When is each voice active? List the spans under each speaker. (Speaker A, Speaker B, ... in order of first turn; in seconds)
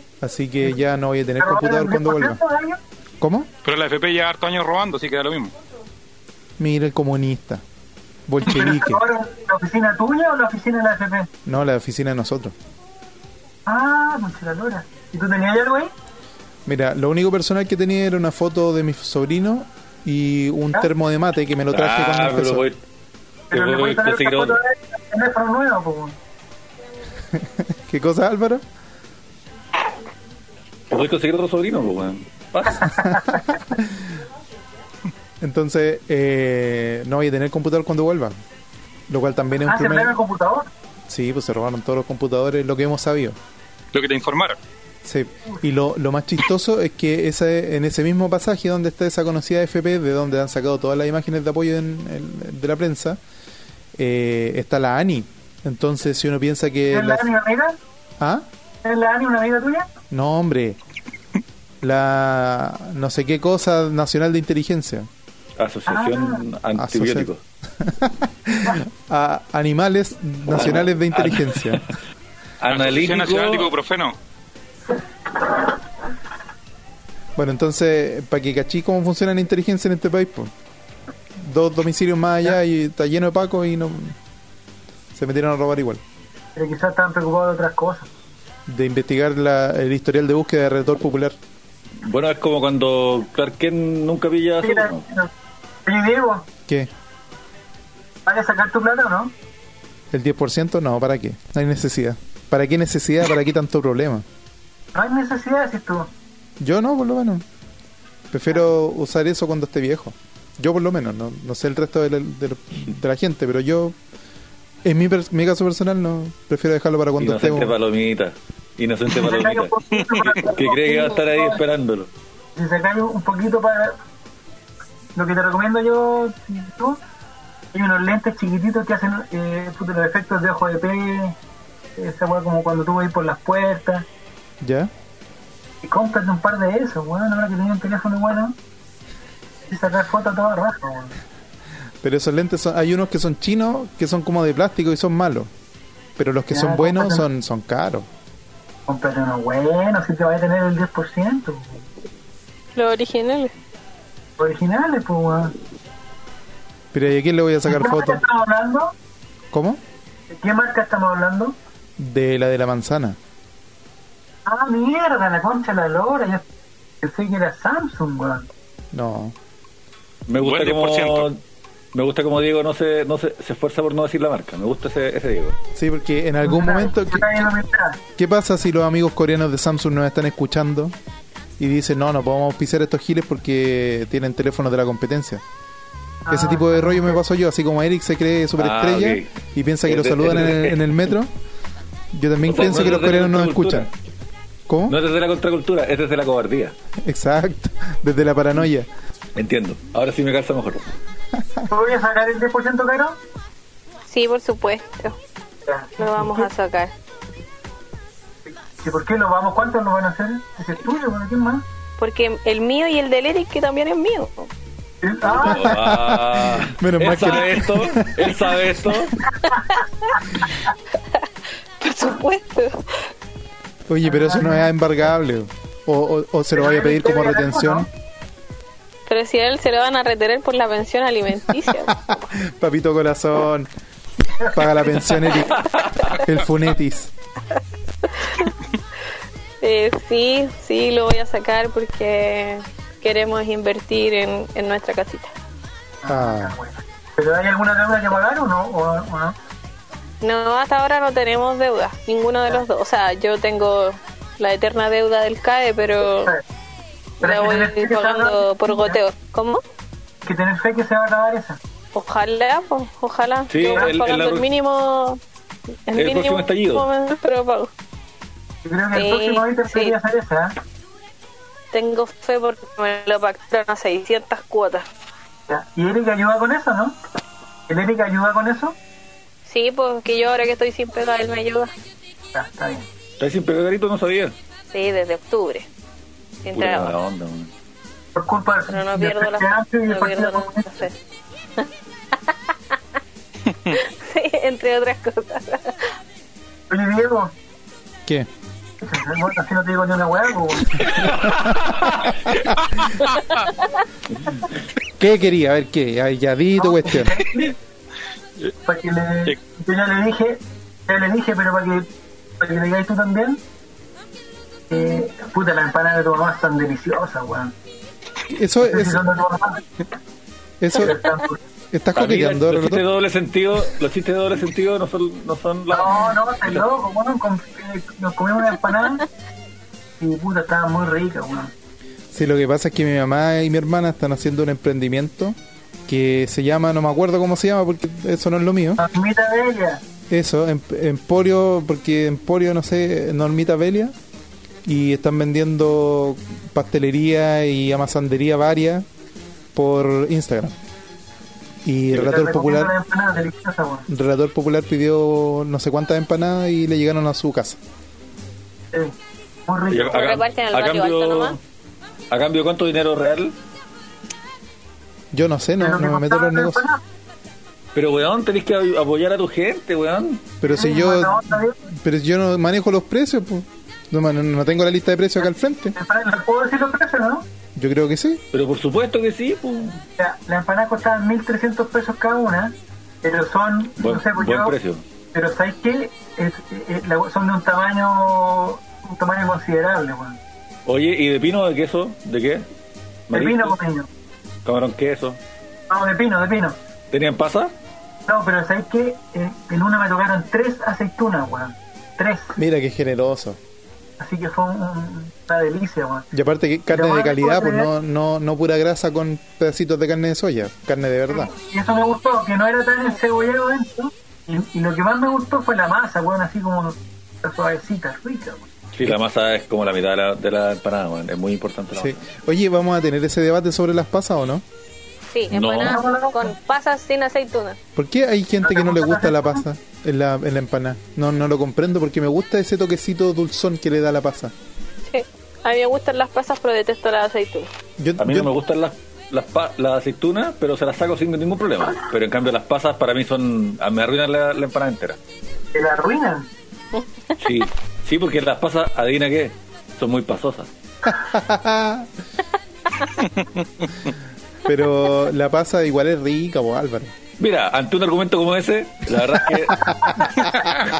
Speaker A: 0.2-2.4, 3.2-3.5, 6.6-7.6, 8.3-9.0, 11.4-12.5, 16.6-22.6, 27.3-28.6, 35.4-38.4, 39.1-40.2, 41.1-43.4, 45.0-53.2, 54.0-57.3, 58.2-58.5, 60.1-60.8, 61.8-65.1, 66.8-71.8, 77.4-80.5, 81.4-84.2, 85.1-86.0, 88.7-91.3, 100.1-104.2, 106.6-107.4, 108.3-114.0, 114.8-117.8, 134.6-134.9, 142.0-145.5, 146.2-148.1, 156.9-158.2, 159.5-159.8, 162.0-163.2, 168.9-169.3, 175.7-177.5, 178.2-180.9, 181.6-185.4, 186.3-191.3, 192.1-193.9, 194.7-194.9, 197.0-198.9, 215.5-218.6, 223.9-227.9, 232.1-233.7, 234.5-237.1, 246.1-246.6, 305.0-307.1, 318.3-319.1, 320.6-321.0, 321.7-322.8, 332.1-335.4, 335.9-338.8, 340.1-343.9, 344.6-348.8, 349.5-350.5, 351.6-352.7, 353.9-357.6, 365.1-366.6, 370.4-375.8, 377.6-378.2, 402.4-403.4, 406.1-411.3, 421.7-424.4, 427.8-434.3, 437.8-438.3, 450.9-451.9, 454.4-456.9, 459.5-460.5
Speaker B: 1.4-2.8, 8.4-11.3, 13.7-15.9, 23.5-26.2, 39.6-40.7, 56.9-57.8, 58.8-59.9, 65.9-66.4, 86.5-88.1, 94.6-95.3, 95.8-96.5, 98.2-99.3, 104.9-106.1, 119.1-121.5, 122.5-124.0, 125.2-127.0, 127.7-131.4, 131.9-134.1, 135.8-138.6, 139.7-141.1, 146.5-147.3, 148.9-151.8, 154.4-155.5, 157.7-158.9, 160.3-161.6, 164.4-166.4, 167.0-168.5, 176.4-178.0, 186.2-187.2, 201.7-203.2, 205.6-206.5, 208.5-211.7, 215.0-215.7, 224.0-224.7, 226.5-227.9, 234.4-235.1, 246.0-249.3, 256.1-256.4, 257.2-259.0, 260.2-261.6, 268.6-270.5, 275.5-277.0, 277.7-278.8, 282.3-282.9, 288.1-290.9, 296.7-297.3, 298.8-301.0, 306.6-307.6, 308.6-311.9, 312.4-313.4, 314.7-317.5, 318.6-319.6, 320.7-321.4, 325.7-329.0, 330.0-331.5, 338.8-339.8, 351.9-353.9, 359.5-360.2, 365.6-366.8, 370.4-371.6, 375.7-377.3, 380.0-384.6, 385.1-390.2, 393.1-393.9, 395.7-396.6, 398.1-402.4, 404.0-406.1, 406.7-407.7, 411.1-418.4, 425.6-426.3, 428.4-429.4, 445.5-446.3, 459.8-460.1
Speaker C: 3.6-5.5, 43.9-44.6, 72.7-74.2, 119.9-120.5, 170.3-171.3, 302.8-303.2, 453.2-453.6
Speaker D: 21.7-22.8, 23.5-24.6, 30.9-33.0, 65.6-67.4, 70.5-71.9, 72.6-73.7, 92.0-95.0, 117.2-119.7, 120.4-122.1, 170.3-171.4, 171.9-175.5, 188.6-189.3, 189.8-190.9, 192.4-193.9, 194.9-196.7, 199.3-200.8, 215.2-219.2, 235.3-236.2, 263.5-264.5, 265.9-266.9, 283.2-284.3, 286.5-287.5, 301.0-302.4, 321.9-326.6, 359.7-361.4, 362.1-363.4, 367.7-370.2, 378.3-379.8, 383.8-384.8, 390.6-392.5, 393.1-393.5, 394.4-395.2, 396.9-397.5, 418.7-422.0, 425.3-425.8, 438.0-445.0, 447.2-450.5, 457.2-459.7
Speaker E: 152.8-153.5, 204.1-205.2, 206.0-206.9, 212.0-214.5, 219.4-219.8, 220.9-221.3, 221.8-223.1, 229.1-231.9, 238.1-238.5, 239.6-245.3, 250.2-256.3, 257.2-259.6, 261.9-265.2, 265.9-267.7, 268.9-269.9, 271.7-274.8, 279.4-281.7, 284.7-285.6, 286.4-287.0, 288.7-290.9, 291.6-292.3, 293.7-295.9, 303.2-303.6, 359.9-361.4, 425.1-427.6, 434.9-437.5, 446.7-447.3